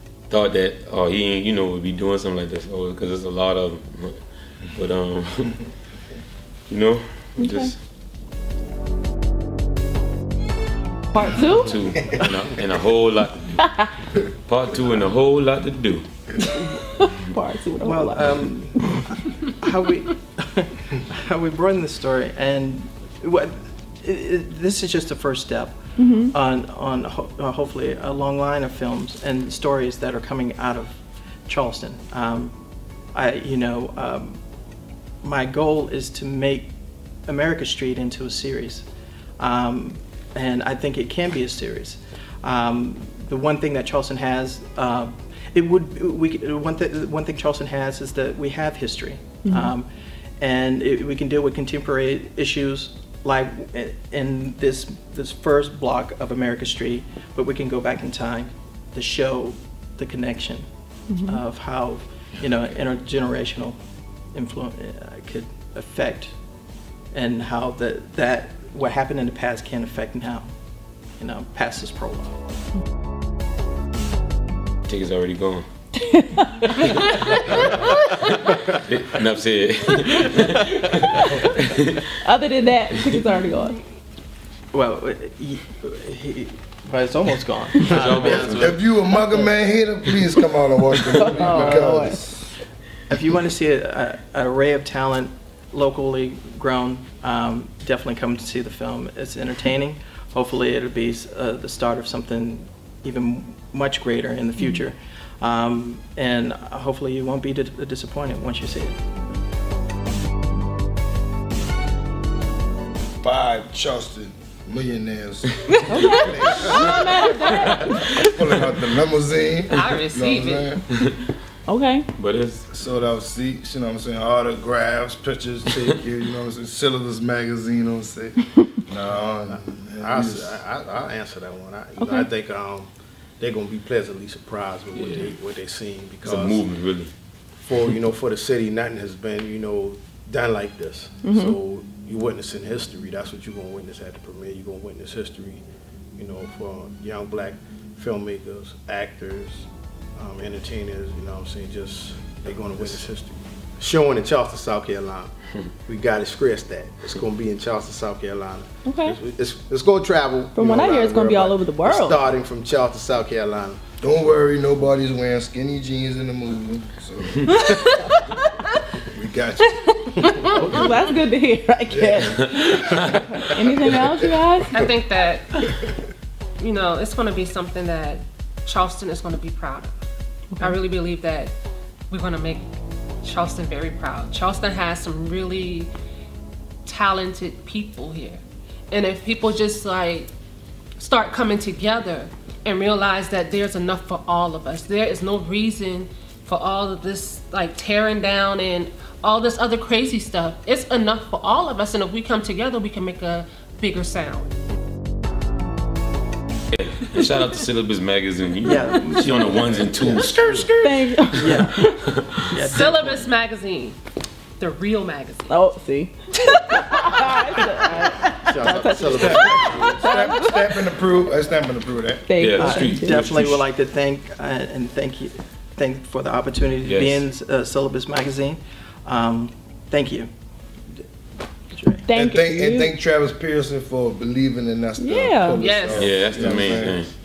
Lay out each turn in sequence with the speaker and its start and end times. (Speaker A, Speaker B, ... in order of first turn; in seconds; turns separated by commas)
Speaker A: 0.3-5.7, Speaker A: 6.7-7.8, Speaker B: 7.4-7.7, Speaker B: 11.1-11.8, Speaker A: 11.6-16.5, Speaker B: 16.5-19.1, Speaker C: 17.8-32.6, Speaker B: 25.9-26.3, Speaker C: 33.1-34.4, Speaker C: 35.2-36.7, Speaker C: 37.2-38.9, Speaker C: 39.4-49.9, Speaker B: 49.4-49.7, Speaker C: 50.4-60.6, Speaker B: 61.1-61.4, Speaker C: 61.2-63.8, Speaker C: 64.3-66.3, Speaker C: 67.1-70.5, Speaker C: 71.2-72.3, Speaker A: 74.9-75.7, Speaker B: 76.0-76.7, Speaker A: 76.8-82.0, Speaker C: 80.7-81.2, Speaker B: 82.2-83.8, Speaker C: 84.7-89.5, Speaker A: 87.9-88.8, Speaker D: 88.2-92.4, Speaker B: 91.1-92.2, Speaker C: 93.1-109.0, Speaker D: 113.2-120.8, Speaker B: 115.9-118.1, Speaker E: 116.0-116.3, Speaker A: 117.5-118.6, Speaker E: 119.7-120.8, Speaker A: 120.9-121.2, Speaker B: 121.7-122.1, Speaker A: 122.2-122.7, Speaker D: 122.7-130.6, Speaker F: 129.4-136.6, Speaker A: 134.9-135.3, Speaker A: 136.2-137.1, Speaker F: 137.6-145.6, Speaker B: 141.2-141.5, Speaker F: 146.2-155.3, Speaker F: 155.8-163.8, Speaker B: 158.8-159.2, Speaker B: 160.5-162.2, Speaker D: 164.0-167.7, Speaker D: 169.0-170.7, Speaker B: 170.6-174.8, Speaker D: 171.9-173.0, Speaker D: 173.8-174.1, Speaker E: 174.7-175.7, Speaker E: 176.6-180.1, Speaker E: 180.6-181.5, Speaker E: 182.1-182.7, Speaker E: 183.2-185.9, Speaker E: 186.8-190.3, Speaker E: 191.0-204.5, Speaker A: 206.7-210.7, Speaker C: 208.6-210.3, Speaker F: 210.0-210.8, Speaker B: 210.8-212.2, Speaker A: 211.3-212.3, Speaker C: 211.3-211.8, Speaker C: 212.4-213.3, Speaker E: 212.6-214.0, Speaker E: 214.6-215.5, Speaker B: 215.5-220.6, Speaker E: 216.8-217.2, Speaker F: 218.3-220.1, Speaker D: 219.4-222.2, Speaker B: 222.3-223.3, Speaker A: 222.4-223.6, Speaker C: 222.6-230.3, Speaker A: 226.8-227.2, Speaker C: 231.7-232.0, Speaker B: 232.0-232.9, Speaker D: 232.1-237.1, Speaker B: 235.0-235.7, Speaker E: 235.6-236.4, Speaker A: 235.9-237.1